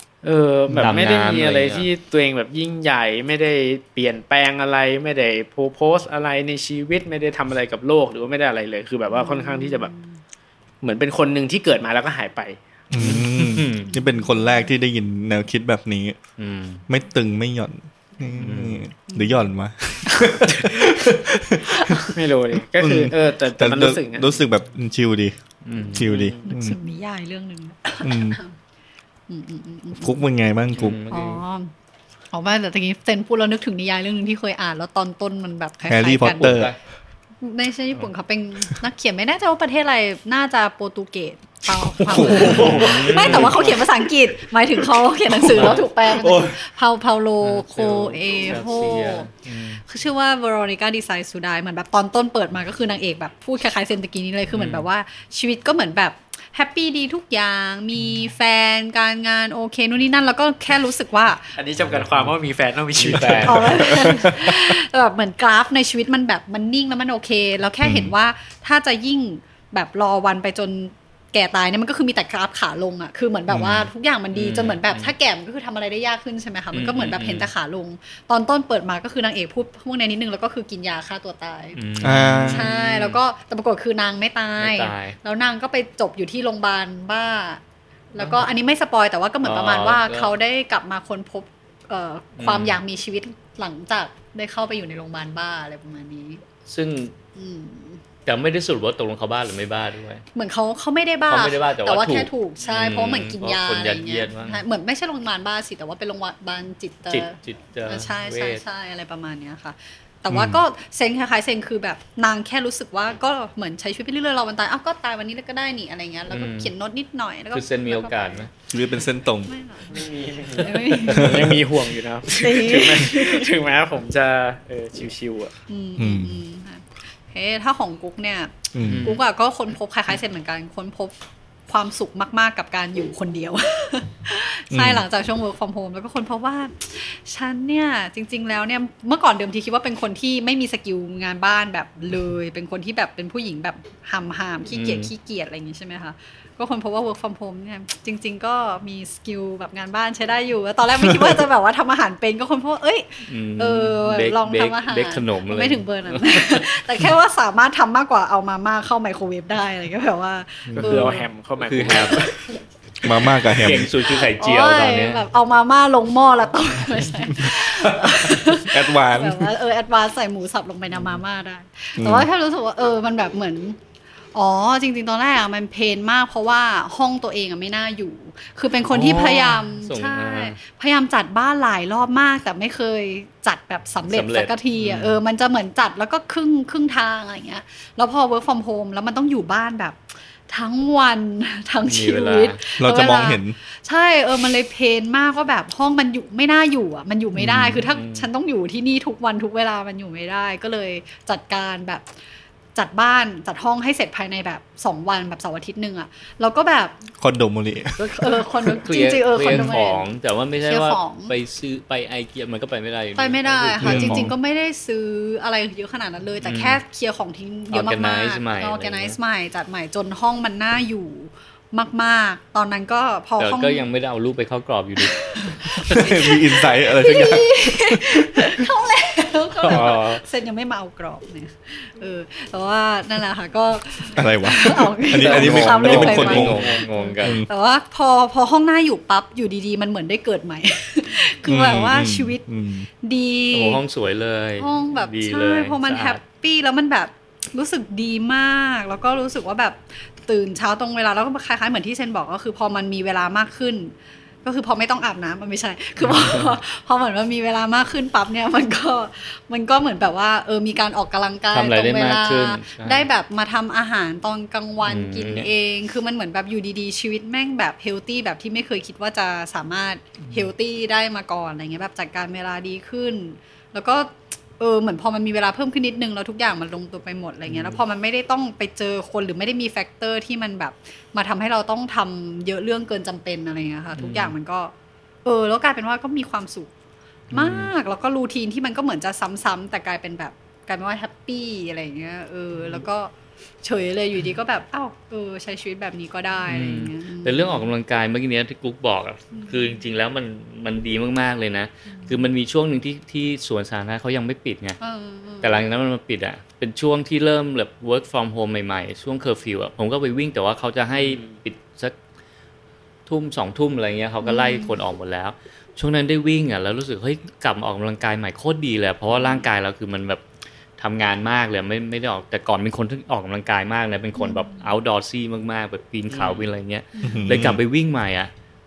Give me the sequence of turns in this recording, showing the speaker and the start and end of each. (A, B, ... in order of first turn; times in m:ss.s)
0:00.2-0:09.9 A
0:00.7-0:01.9 B
0:09.1-0:10.1 C
0:10.8-0:12.6 A
0:12.9-0:16.2 D
0:13.0-0:13.9 B
0:13.8-0:14.7 C
0:16.4-0:16.8 B
0:16.9-0:22.2 D
0:18.4-0:18.8 B
0:19.1-0:19.5 C
0:20.1-0:20.4 C
0:21.8-0:22.1 C
0:22.1-0:24.4 A
0:22.8-0:25.4 D
0:25.6-0:26.2 B
0:25.9-0:26.8 D
0:26.0-0:26.5 A
0:26.5-0:28.5 C
0:28.0-0:28.4 D
0:29.3-0:30.2 C
0:30.0-0:31.0 D
0:30.8-0:31.4 B
0:31.1-0:31.7 C
0:32.3-0:36.7 C
0:35.9-0:36.7 D
0:36.2-0:36.8 B
0:37.4-0:49.3 C
0:41.7-0:43.8 D
0:42.2-0:43.8 B
0:45.3-0:46.6 D
0:45.5-0:45.8 B
0:47.4-0:49.8 B
0:49.8-1:01.5 C
0:54.5-0:54.9 B
1:01.6-1:03.9 A
1:01.9-1:02.3 B
1:03.0-1:04.0 B
1:03.5-1:21.8 C
1:03.8-1:04.7 D
1:07.8-1:08.1 D
1:13.5-1:13.9 D
1:14.3-1:15.1 B
1:16.7-1:17.5 B
1:21.8-1:23.2 B
1:22.0-1:22.7 D
1:22.5-1:27.6 C
1:24.6-1:25.2 B
1:28.1-1:36.4 C
1:28.2-1:28.5 B
1:29.4-1:30.3 B
1:32.4-1:32.8 B
1:36.7-1:37.1 B
1:37.4-1:38.0 C
1:38.3-1:40.2 B
1:40.3-1:58.5 C
1:41.3-1:44.6 B
1:47.1-1:48.6 B
1:50.3-1:50.6 D
1:56.3-1:56.7 B
1:57.5-1:58.5 B
1:58.7-1:59.5 D
1:59.5-2:01.5 C
1:59.9-2:05.5 A
2:01.2-2:01.6 D
2:02.4-2:03.5 C
2:05.7-2:11.1 C
2:06.0-2:06.4 D
2:08.7-2:09.2 D
2:08.8-2:09.2 B
2:11.7-2:41.3 C
2:14.7-2:15.0 D
2:24.7-2:25.1 B
2:31.0-2:31.4 D
2:33.3-2:36.7 B
2:40.7-2:42.3 B
2:40.8-2:42.4 A
2:41.9-2:42.3 C
2:43.0-2:43.9 D
2:43.5-2:45.2 B
2:43.9-2:53.8 C
2:47.4-2:49.5 D
2:52.0-2:52.3 D
2:54.3-3:22.1 C
2:58.9-3:00.6 B
3:04.1-3:05.2 B
3:11.9-3:12.6 B
3:12.8-3:13.6 D
3:17.4-3:17.8 D
3:17.6-3:18.3 B
3:22.8-3:27.1 C
3:27.2-3:28.0 D
3:28.0-3:34.3 B
3:28.2-3:30.1 C
3:30.6-3:31.4 C
3:33.2-3:43.9 C
3:33.8-3:34.3 D
3:36.4-3:36.8 B
3:37.7-3:39.2 B
3:43.4-3:45.9 B
3:45.0-4:02.4 C
3:45.8-3:48.5 D
3:49.6-3:50.2 A
3:49.6-3:50.2 B
3:54.1-3:56.7 D
3:55.2-3:56.7 A
3:55.2-3:57.4 B
4:01.4-4:02.9 D
4:03.0-4:03.8 C
4:03.5-4:06.2 B
4:04.6-4:44.7 C
4:16.0-4:16.5 B
4:21.5-4:23.1 B
4:24.9-4:25.5 B
4:37.4-4:37.8 B
4:44.0-4:44.3 B
4:45.2-4:46.7 C
4:47.3-4:47.7 B
4:47.3-4:53.1 C
4:53.6-4:57.7 C
4:56.5-5:04.8 B
4:59.3-4:59.8 C
5:01.9-5:02.3 C
5:04.8-5:05.6 C
5:05.4-5:12.0 B
5:11.0-5:11.3 A
5:13.1-5:20.2 B
5:14.2-5:14.8 C
5:20.8-5:28.3 B
5:24.2-5:24.7 C
5:26.1-5:26.4 A
5:27.0-5:27.3 C
5:27.0-5:27.6 D